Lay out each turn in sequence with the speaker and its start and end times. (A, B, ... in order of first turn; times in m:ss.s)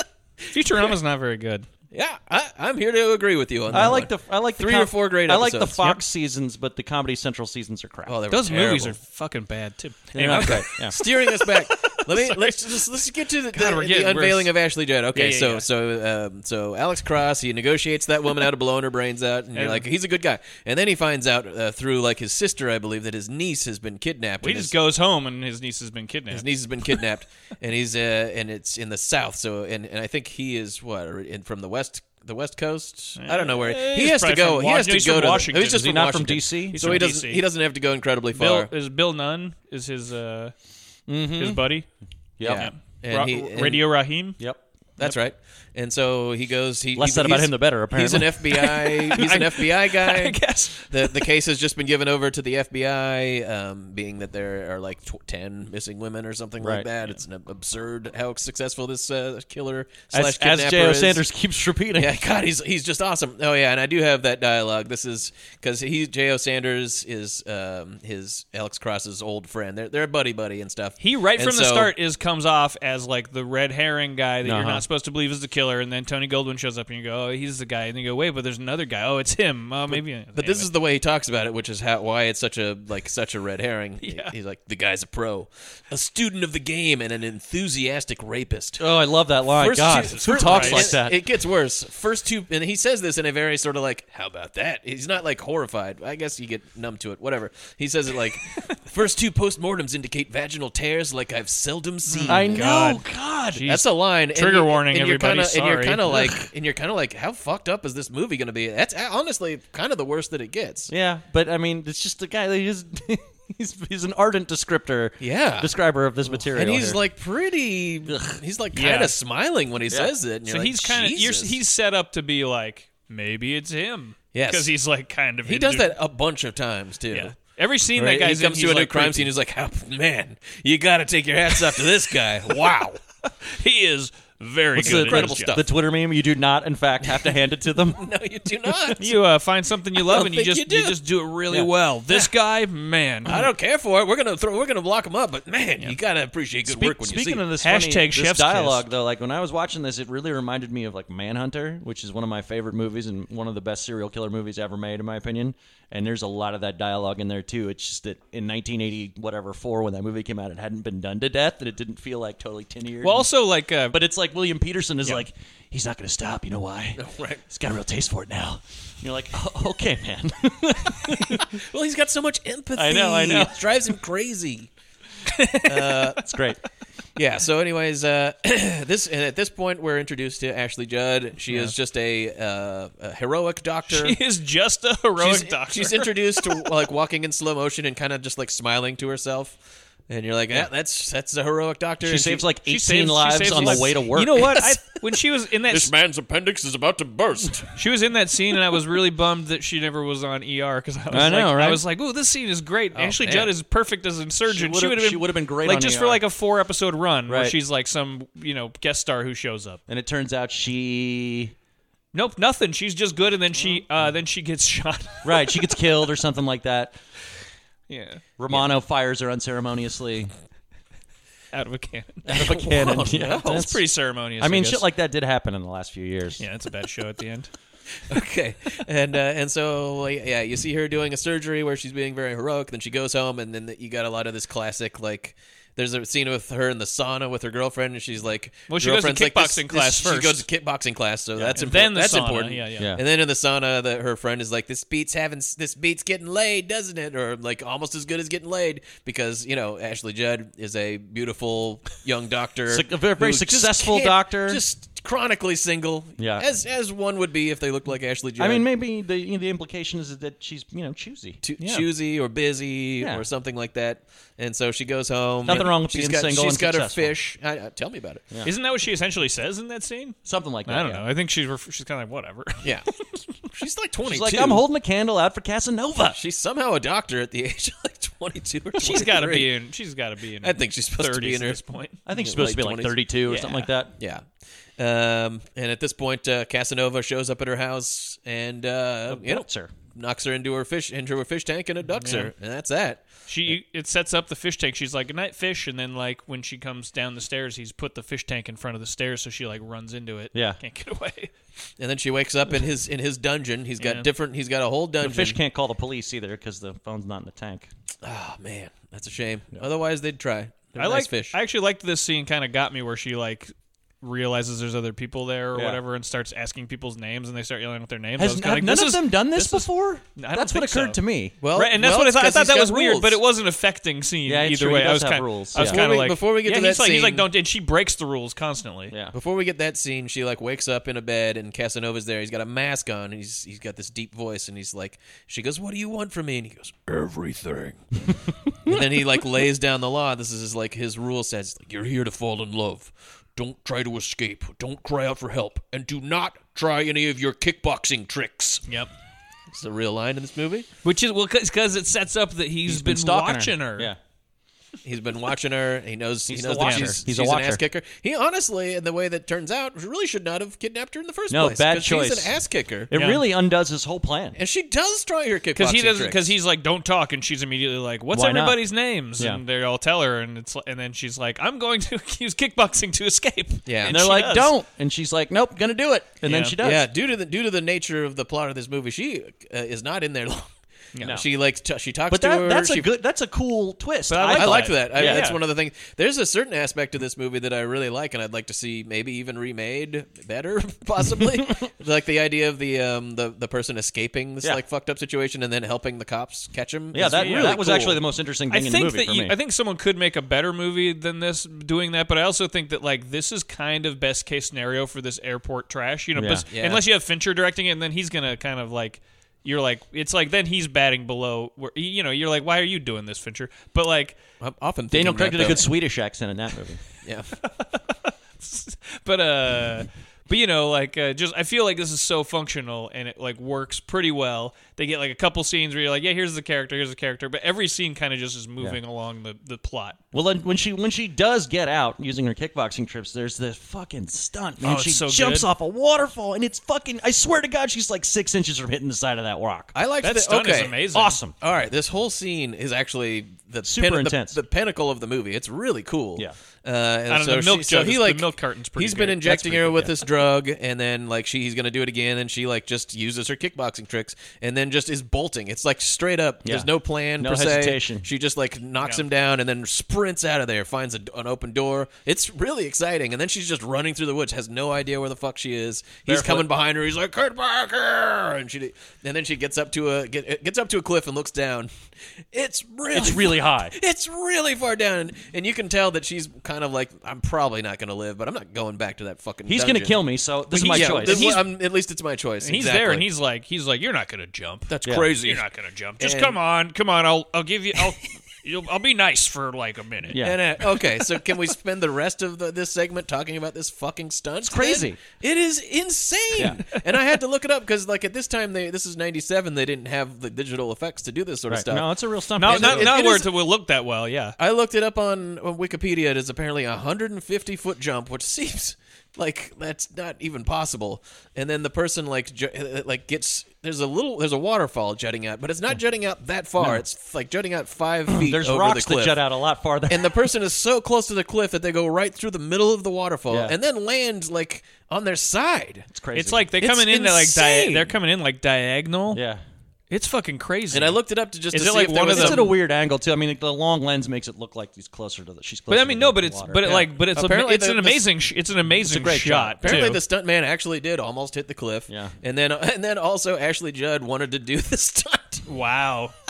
0:00.5-0:01.7 A
0:01.9-0:05.9 B
0:03.7-0:08.1 C
0:08.0-0:09.0 B
0:08.3-0:12.8 A
0:10.1-0:11.0 C
0:10.3-0:24.7 B
0:13.5-0:14.5 A
0:15.1-0:15.6 A
0:19.5-0:19.8 A
0:24.4-0:27.0 A
0:26.3-0:38.7 B
0:33.2-0:36.1 A
0:35.6-0:37.1 C
0:36.7-0:37.5 A
0:38.3-0:40.5 A
0:41.1-0:41.7 C
0:41.3-0:41.9 A
0:42.4-0:42.7 C
0:42.4-0:43.8 B
0:42.5-0:44.4 A
0:45.0-1:01.2 B
0:46.9-0:48.4 C
0:48.5-0:51.3 A
0:56.6-0:56.9 C
1:00.1-1:02.2 C
1:02.0-1:11.9 B
1:11.0-1:20.7 A
1:14.4-1:14.8 C
1:19.9-1:28.8 B
1:24.0-1:24.3 A
1:28.8-1:31.2 C
1:29.5-1:42.6 B
1:30.1-1:30.9 A
1:42.1-1:46.4 A
1:42.2-1:43.6 C
1:43.6-1:50.9 B
1:50.9-1:57.0 C
1:55.2-1:55.7 B
1:56.2-2:01.6 B
1:58.1-1:58.4 C
1:58.7-1:59.2 A
2:00.4-2:06.0 A
2:04.3-2:04.7 B
2:05.4-2:07.3 B
2:07.1-2:09.3 A
2:08.0-2:08.2 C
2:08.0-2:13.0 B
2:13.2-2:15.6 A
2:14.7-2:18.0 C
2:14.8-2:15.6 B
2:17.9-2:19.1 B
2:19.0-2:23.5 A
2:20.0-2:21.0 B
2:23.3-2:27.4 B
2:26.6-2:43.3 C
2:27.6-2:28.8 A
2:43.0-2:44.0 A
2:43.8-2:51.6 C
2:47.0-2:47.4 B
2:51.5-2:54.7 B
2:52.7-2:53.6 C
2:55.3-2:56.1 A
2:55.6-2:56.2 B
2:56.2-2:56.6 C
2:57.2-3:04.2 B
3:03.9-3:06.6 A
3:05.2-3:12.5 B
3:12.0-3:14.6 C
3:12.6-3:15.9 A
3:15.7-3:17.8 B
3:17.8-3:29.8 A
3:21.1-3:21.8 C
3:22.9-3:23.5 B
3:24.5-3:26.2 C
3:27.3-3:27.6 C
3:29.9-3:31.5 C
3:32.1-3:35.3 A
3:35.2-3:37.0 C
3:37.9-3:38.6 A
3:38.4-3:40.3 C
3:41.5-3:42.2 A
3:42.2-3:43.8 C
3:42.3-3:43.7 B
3:43.1-3:44.8 A
3:44.4-3:46.4 C
3:46.4-3:47.5 A
3:48.1-4:18.7 B
3:58.7-4:00.4 A
4:01.5-4:02.9 A
4:12.7-4:14.6 C
4:16.2-4:16.5 C
4:18.4-4:21.4 C
4:21.4-4:28.2 B
4:21.6-4:21.8 A
4:23.0-4:23.2 C
4:25.4-4:27.1 C
4:28.4-4:32.7 A
4:30.2-4:31.0 C
4:32.6-4:32.9 B
4:33.5-4:34.6 B
4:34.0-4:36.2 C
4:36.1-4:39.5 B
4:38.8-4:42.0 A
4:40.4-4:41.6 B
4:42.0-4:43.9 C
4:42.1-4:43.0 B
4:43.3-4:43.7 A
4:44.0-4:44.2 B
4:44.8-4:53.0 B
4:49.1-4:49.7 C
4:52.0-4:52.3 A
4:53.3-5:01.3 A
5:00.3-5:00.6 C
5:01.8-5:05.4 B
5:03.8-5:04.1 A
5:05.0-5:07.7 C
5:08.0-5:11.4 B
5:10.8-5:21.0 A
5:15.5-5:15.8 C
5:18.2-5:21.3 C
5:21.4-5:23.2 B
5:21.5-5:28.9 A
5:24.2-5:25.8 C
5:25.6-5:27.3 B
5:28.9-5:29.1 C
5:29.1-5:37.8 B
5:38.6-5:48.6 B
5:49.5-5:50.7 B
5:50.8-5:53.9 A
5:52.6-5:54.0 C
5:54.8-6:02.9 B
5:56.3-5:57.6 C
5:56.6-5:57.0 A
6:01.3-6:02.3 C
6:02.9-6:04.4 C
6:02.9-6:03.2 A
6:04.4-6:06.3 B
6:05.6-6:14.5 A
6:08.1-6:08.6 C
6:13.6-6:14.0 B
6:13.8-6:16.9 C
6:16.2-6:16.6 A
6:16.6-6:20.5 B
6:20.9-6:21.2 A
6:21.1-6:22.9 B
6:22.1-6:25.3 C
6:24.1-6:25.4 A
6:24.3-6:38.0 B
6:36.9-6:39.3 C
6:37.0-6:37.8 A
6:38.5-6:54.2 A
6:46.2-6:46.4 C
6:46.5-6:46.8 B
6:54.4-6:55.7 B
6:54.9-6:56.8 C
6:57.0-6:57.3 B
6:57.4-7:10.0 A
7:10.1-7:19.7 C
7:14.6-7:15.5 A
7:19.7-7:20.8 B
7:20.0-7:21.2 A
7:20.9-7:21.3 C
7:21.4-7:51.7 B
7:23.6-7:24.4 C
7:27.1-7:29.9 A
7:36.4-7:38.1 C
7:46.0-7:46.5 C
7:52.3-8:00.0 B
7:52.9-7:53.8 C
7:59.4-8:01.4 C
8:00.5-8:01.4 A
8:00.6-8:03.1 B
8:02.4-8:04.7 A
8:04.7-8:05.4 B
8:05.2-8:10.2 A
8:06.0-8:06.4 B
8:10.1-8:10.4 C
8:10.2-8:23.3 B
8:14.4-8:15.0 C
8:21.5-8:23.0 C
8:22.4-8:24.4 A
8:24.4-8:39.2 B
8:38.1-8:40.3 C
8:39.9-8:45.9 B
8:43.3-8:43.6 C
8:45.9-8:46.5 C
8:46.1-8:49.2 A
8:46.6-8:47.9 B
8:49.1-8:49.4 C
8:49.9-8:52.5 A
8:50.7-8:52.5 B
8:52.1-8:56.8 C
8:55.7-9:00.0 A
8:56.6-8:58.0 B
8:58.7-8:59.9 C
8:59.6-9:05.4 B
9:01.9-9:02.1 C
9:05.5-9:06.1 A